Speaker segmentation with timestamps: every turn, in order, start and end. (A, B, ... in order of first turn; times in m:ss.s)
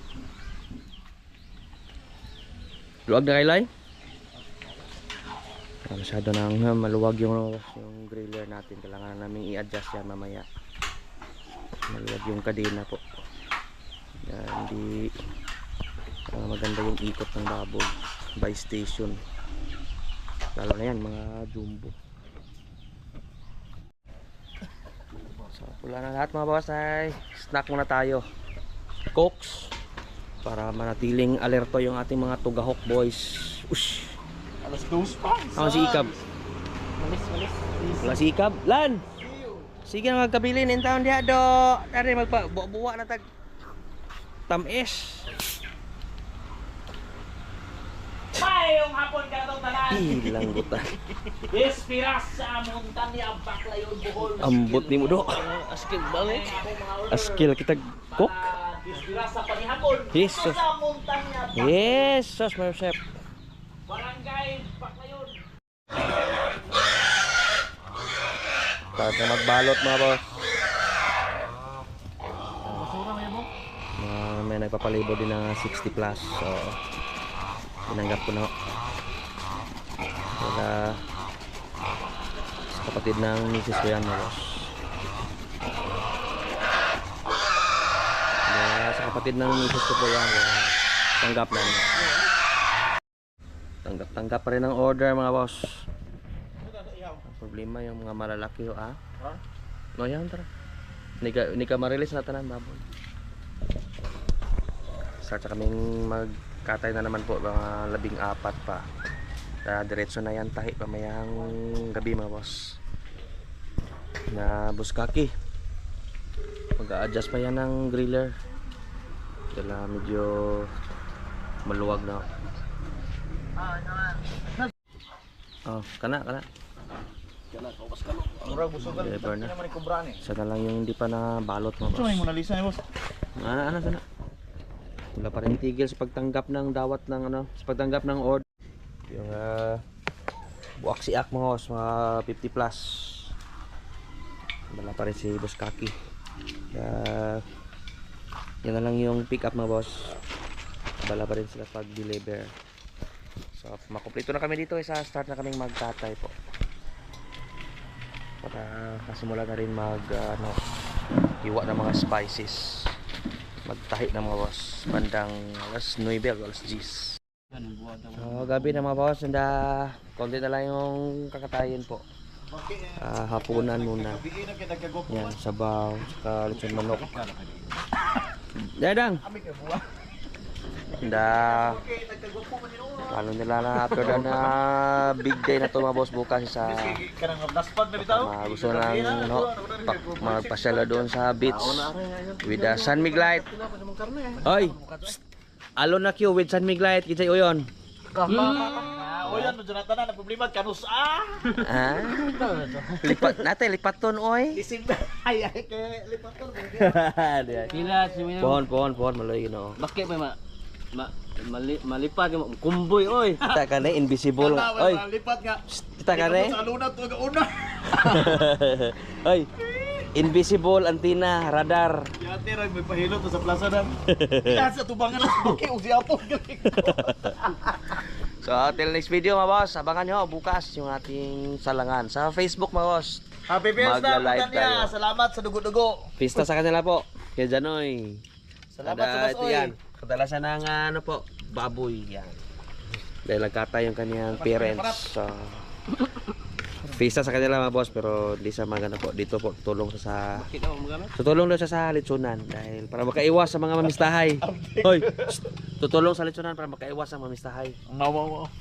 0:03.1-0:03.7 A
0:05.9-0:10.5 A
0:11.9-0:13.0 A
0:14.3-0:15.1 A
0:16.3-0:19.2 A
0:20.6-0:22.0 A
0:25.5-0:28.3 A
0:29.1-0:29.7 A
0:30.4-0:34.2 A
0:34.6-0:36.2 B
0:35.6-0:36.2 A
0:37.0-0:37.8 C
0:37.9-0:39.0 A
0:39.2-0:39.7 B
0:39.9-0:43.3 A
0:44.5-0:45.4 A
0:48.3-0:50.4 C
0:49.8-0:50.9 A
0:51.3-0:57.5 C
0:54.4-0:55.4 A
0:57.1-0:58.5 A
0:58.1-1:00.4 C
1:00.1-1:00.6 A
1:00.2-1:02.0 B
1:01.5-1:03.0 A
1:03.9-1:05.4 C
1:09.0-1:10.3 A
1:12.7-1:12.9 A
1:12.7-1:13.5 B
1:14.0-1:16.8 A
1:17.9-1:18.5 A
1:20.4-1:21.0 A
1:22.7-1:24.7 A
1:28.5-1:32.0 A
1:33.8-1:35.9 A
1:36.8-1:37.2 B
1:37.2-1:39.0 A
1:40.0-1:40.5 A
1:41.2-1:42.8 A
1:45.2-1:48.9 A
1:49.6-1:52.8 A
1:54.3-1:55.3 A
1:56.8-1:58.4 A
1:59.5-2:00.7 A
2:01.7-2:02.3 A
2:03.6-2:04.2 B
2:05.7-2:06.5 A
2:07.6-2:08.4 C
2:07.6-2:10.2 B
2:08.7-2:09.5 A
2:10.2-2:12.3 A
2:11.9-2:12.8 B
2:13.4-2:14.0 A
2:15.2-2:18.4 A
2:19.1-2:19.8 A
2:20.8-2:23.3 A
2:24.7-2:26.0 A
2:26.7-2:27.4 A
2:28.6-2:30.2 A
2:31.0-2:32.5 A
2:33.6-2:36.3 A
2:38.4-2:40.6 A
2:41.4-2:43.0 A
2:43.7-2:47.2 A
2:48.0-2:52.0 A
2:52.5-2:55.4 B
2:53.0-2:54.2 A
2:55.1-2:57.3 A
2:56.5-2:57.7 B
2:58.6-2:59.2 A
2:59.2-2:59.8 B
3:01.0-3:01.8 A
3:01.0-3:03.2 B
3:03.1-3:07.0 A
3:03.8-3:04.6 B
3:06.6-3:15.2 B
3:08.0-3:11.9 A
3:12.4-3:13.5 A
3:14.4-3:15.1 A
3:15.8-3:17.7 A
3:18.2-3:21.6 B
3:18.2-3:19.6 C
3:21.6-3:24.6 A
3:22.2-3:23.4 C
3:24.5-3:28.4 B
3:26.8-3:27.8 A
3:27.7-3:28.7 C
3:28.4-3:29.8 A
3:29.8-3:30.4 C
3:30.9-3:33.7 C
3:33.4-3:35.1 A
3:34.4-3:38.4 B
3:35.7-3:36.6 A
3:37.9-3:42.1 A
3:42.2-3:47.6 B
3:44.1-3:44.7 A
3:46.7-3:53.2 A
3:53.5-3:56.1 B
3:53.8-3:54.9 A
3:56.2-3:58.2 A
3:58.7-3:59.8 B
3:58.8-4:02.4 A
4:03.2-4:05.6 A
4:04.3-4:05.1 B
4:06.8-4:10.5 A
4:10.3-4:11.1 C
4:11.1-4:17.8 A
4:14.4-4:15.4 B
4:17.9-4:18.5 B